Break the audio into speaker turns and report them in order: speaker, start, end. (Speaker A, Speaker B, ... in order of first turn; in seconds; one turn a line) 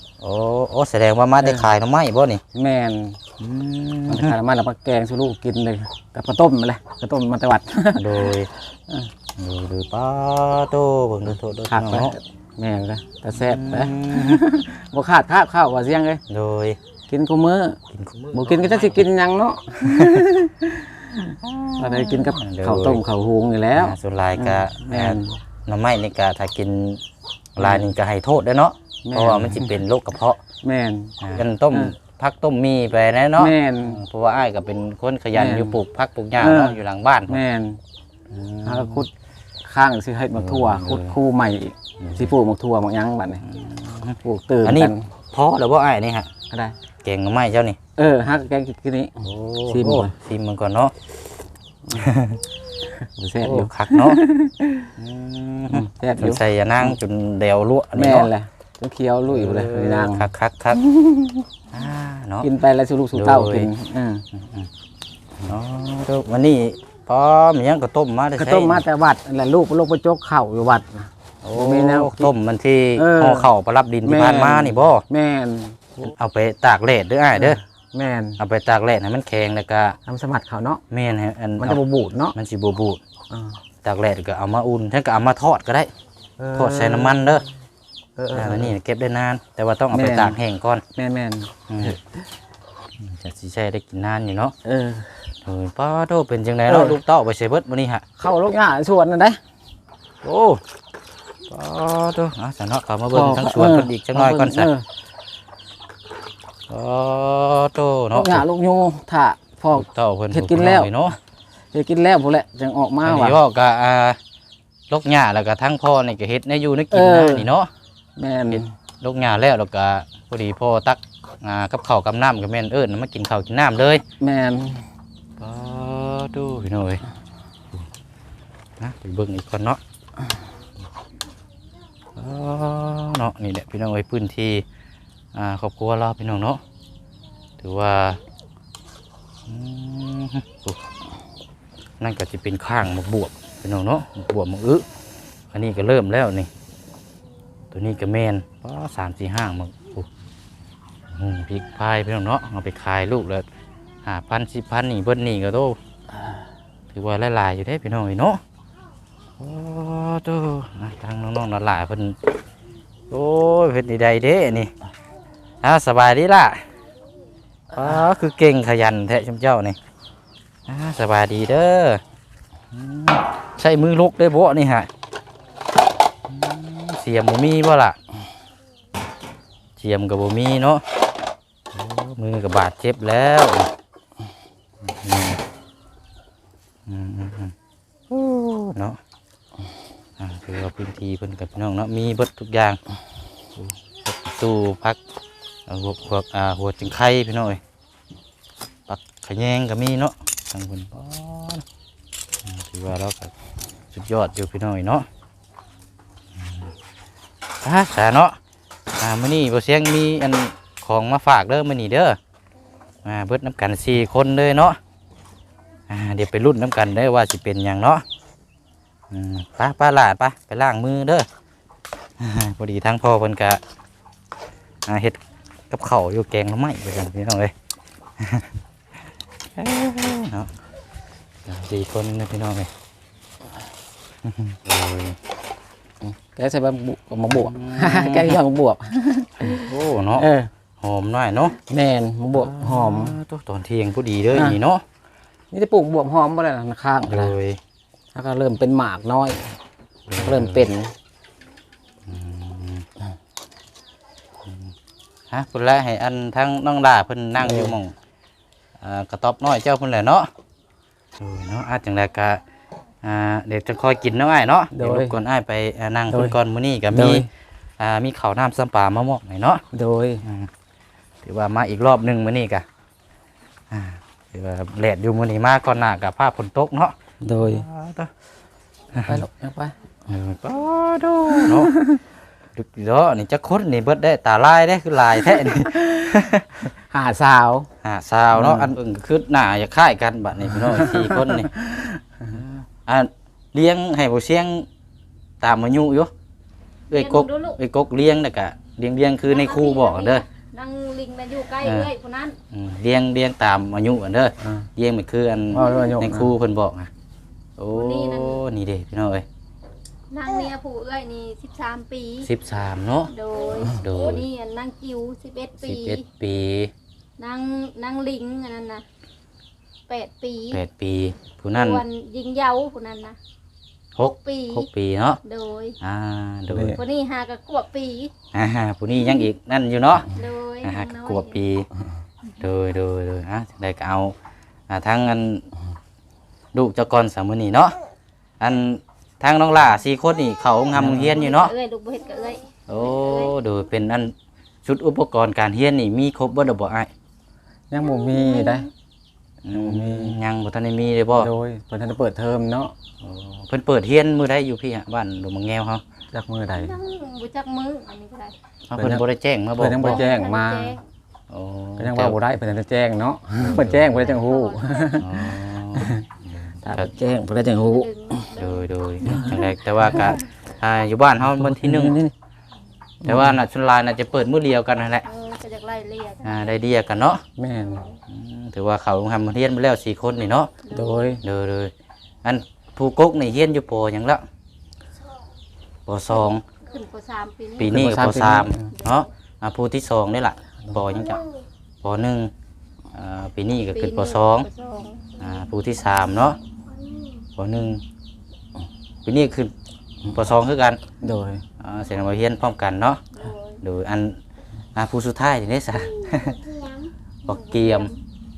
Speaker A: 0.2-2.4
Speaker B: 1.4-1.7
Speaker B: 2.5-3.2
Speaker A: 3.4-4.4
Speaker B: 4.1-9.1
Speaker A: 7.9-8.5
Speaker A: 9.4-12.1
Speaker B: 11.7-16.2
Speaker A: 13.3-14.4
Speaker A: 16.3-16.8
Speaker B: 17.1-17.8
Speaker A: 17.9-19.1
Speaker B: 18.3-25.4
Speaker A: 19.9-20.2
Speaker A: 21.4-23.0
Speaker A: 23.7-27.0
Speaker A: 27.6-30.4
Speaker B: 27.6-27.9
Speaker B: 29.0-29.8
Speaker B: 30.6-31.9
Speaker A: 31.2-37.4
Speaker B: 33.4-34.0
Speaker B: 35.3-35.8
Speaker B: 36.4-37.8
Speaker A: 38.3-39.1
Speaker B: 38.6-39.1
Speaker B: 39.6-43.4
Speaker A: 40.4-41.1
Speaker A: 42.0-42.3
Speaker A: 43.4-46.3
Speaker B: 44.2-45.1
Speaker A: 47.0-47.8
Speaker B: 48.0-50.1
Speaker A: 49.2-50.9
Speaker A: 51.9-52.4
Speaker B: 52.8-54.9
Speaker A: 53.4-54.2
Speaker A: 54.9-58.3
Speaker B: 55.7-57.0
Speaker B: 57.9-61.5
Speaker A: 59.3-60.8
Speaker A: 61.7-62.5
Speaker B: 62.4-64.2
Speaker A: 63.1-63.7
Speaker A: 64.3-64.7
Speaker A: 65.4-68.8
Speaker B: 68.3-72.3
Speaker A: 71.4-75.0
Speaker B: 73.0-73.5
Speaker B: 74.0-76.0
Speaker A: 76.0-77.6
Speaker B: 77.3-78.4
Speaker A: 78.4-80.0
Speaker B: 80.0-80.8
Speaker A: 80.9-81.8
Speaker B: 81.6-82.3
Speaker A: 82.3-83.0
Speaker B: 83.3-83.6
Speaker A: 83.8-85.9
Speaker B: 86.4-87.4
Speaker A: 86.5-87.4
Speaker B: 88.2-88.7
Speaker A: 88.3-90.8
Speaker B: 89.9-90.4
Speaker B: 90.9-92.2
Speaker A: 91.7-92.0
Speaker A: 93.0-94.5
Speaker B: 94.6-95.3
Speaker A: 95.4-98.0
Speaker B: 96.7-97.0
Speaker B: 98.2-99.4
Speaker A: 100.2-100.6
Speaker A: 101.5-104.7
Speaker B: 103.1-104.9
Speaker A: 106.7-108.4
Speaker B: 108.1-111.0
Speaker A: 109.7-111.2
Speaker B: 111.7-113.4
Speaker A: 113.0-114.2
Speaker A: 114.9-117.7
Speaker B: 116.9-117.5
Speaker B: 118.2-118.7
Speaker A: 118.5-124.0
Speaker B: 124.2-124.9
Speaker A: 125.4-127.0
Speaker A: 128.8-129.8
Speaker A: 132.1-134.6
Speaker A: 135.3-136.6
Speaker A: 137.6-138.2
Speaker A: 139.5-140.8
Speaker A: 142.0-144.8
Speaker A: 145.5-146.5
Speaker A: 147.7-150.1
Speaker A: 151.1-153.4
Speaker A: 154.0-155.8
Speaker A: 156.9-158.4
Speaker A: 159.4-162.2
Speaker A: 163.1-164.7
Speaker A: 165.6-166.7
Speaker A: 167.7-169.8
Speaker A: 170.7-172.0
Speaker A: 172.7-174.9
Speaker A: 176.3-178.0
Speaker A: 179.8-180.8
Speaker A: 181.7-183.7
Speaker A: 184.8-185.4
Speaker A: 186.9-187.5
Speaker A: 188.1-189.0
Speaker A: 190.2-192.8
Speaker A: 193.6-195.0
Speaker A: 195.7-197.6
Speaker A: 198.9-201.6
Speaker A: 202.4-203.3
Speaker A: 203.9-205.1
Speaker A: 206.3-206.7
Speaker A: 207.6-208.4
Speaker A: 209.0-212.2
Speaker A: 213.0-214.8
Speaker A: 215.9-218.0
Speaker A: 219.1-221.3
Speaker A: 222.2-223.6
Speaker A: 224.8-227.5
Speaker A: 228.2-228.5
Speaker A: 229.6-230.5
Speaker A: 231.4-232.7
Speaker A: 234.3-235.2
Speaker B: 236.0-240.5
Speaker A: 237.3-238.4
Speaker A: 239.5-240.3
Speaker A: 240.8-241.6
Speaker B: 241.6-243.1
Speaker A: 242.3-244.8
Speaker B: 244.3-244.6
Speaker B: 245.5-247.4
Speaker A: 247.1-247.6
Speaker B: 248.1-249.5
Speaker A: 250.1-250.7
Speaker B: 250.2-250.9
Speaker A: 252.1-252.8
Speaker A: 254.4-254.7
Speaker A: 255.3-257.9
Speaker B: 257.4-257.8
Speaker A: 258.8-260.3
Speaker A: 261.2-262.4
Speaker A: 263.0-267.3
Speaker B: 264.7-265.2
Speaker B: 266.1-266.4
Speaker B: 266.9-267.3
Speaker A: 267.8-269.6
Speaker B: 269.7-270.2
Speaker A: 270.2-270.5
Speaker A: 271.2-272.6
Speaker A: 273.7-278.1
Speaker B: 277.2-277.6
Speaker A: 278.9-279.2
Speaker B: 279.0-279.7
Speaker A: 280.1-281.8
Speaker B: 281.4-282.0
Speaker A: 282.6-286.7
Speaker B: 285.3-287.7
Speaker A: 287.8-291.5
Speaker B: 288.3-288.7
Speaker B: 290.5-292.0
Speaker A: 292.3-294.7
Speaker A: 295.4-296.1
Speaker A: 296.9-300.2
Speaker C: 296.9-297.6
Speaker C: 299.2-302.4
Speaker A: 301.6-301.9
Speaker A: 302.5-306.9
Speaker B: 304.4-304.7
Speaker B: 305.5-306.3
Speaker A: 307.6-309.2
Speaker C: 307.7-308.4
Speaker C: 310.1-312.3
Speaker A: 312.2-313.1
Speaker C: 313.1-316.0
Speaker A: 313.7-314.2
Speaker A: 315.6-316.7
Speaker C: 317.2-318.8
Speaker C: 319.9-320.6
Speaker A: 320.5-321.8
Speaker C: 321.5-323.2
Speaker A: 323.9-325.2
Speaker C: 324.0-324.7
Speaker C: 325.2-325.8
Speaker A: 325.8-326.8
Speaker B: 326.5-326.8
Speaker C: 326.7-328.1
Speaker A: 328.3-330.1
Speaker C: 330.1-331.4
Speaker A: 330.6-331.7
Speaker A: 332.4-334.1
Speaker A: 334.7-335.5
Speaker A: 336.5-337.8
Speaker A: 338.4-341.5
Speaker B: 340.8-341.2
Speaker C: 341.1-343.3
Speaker A: 342.7-346.9
Speaker B: 347.7-348.7
Speaker C: 348.1-348.6
Speaker A: 349.4-351.3
Speaker B: 349.5-350.2
Speaker B: 351.1-352.7
Speaker A: 353.0-355.8
Speaker B: 356.1-356.8
Speaker C: 356.5-358.3
Speaker A: 358.7-360.0
Speaker B: 358.8-359.0
Speaker B: 359.6-360.8
Speaker C: 359.8-360.8
Speaker A: 361.3-362.2
Speaker B: 361.8-366.1
Speaker A: 363.4-364.1
Speaker C: 363.8-365.0
Speaker A: 365.0-366.9
Speaker B: 366.6-367.9
Speaker C: 367.6-369.5
Speaker A: 368.4-372.0
Speaker B: 371.2-372.1
Speaker B: 373.0-373.3
Speaker A: 373.0-375.1
Speaker C: 375.0-376.6
Speaker A: 376.2-377.2
Speaker B: 377.4-377.8
Speaker C: 377.6-378.0
Speaker A: 378.1-380.5
Speaker C: 380.6-381.2
Speaker B: 380.7-381.2
Speaker A: 381.2-381.7
Speaker A: 382.2-384.2
Speaker A: 385.9-386.4
Speaker C: 386.5-387.8
Speaker A: 387.6-391.2
Speaker B: 387.6-388.7
Speaker C: 388.7-389.1
Speaker A: 391.8-392.3
Speaker A: 392.9-394.5
Speaker C: 393.7-395.1
Speaker A: 395.2-396.4
Speaker A: 397.4-397.8
Speaker A: 399.0-399.5
Speaker A: 400.0-400.8
Speaker B: 401.0-401.4
Speaker A: 401.6-403.1
Speaker C: 403.1-403.6
Speaker A: 403.6-404.2
Speaker A: 404.7-406.4
Speaker A: 407.3-407.9
Speaker C: 407.3-408.0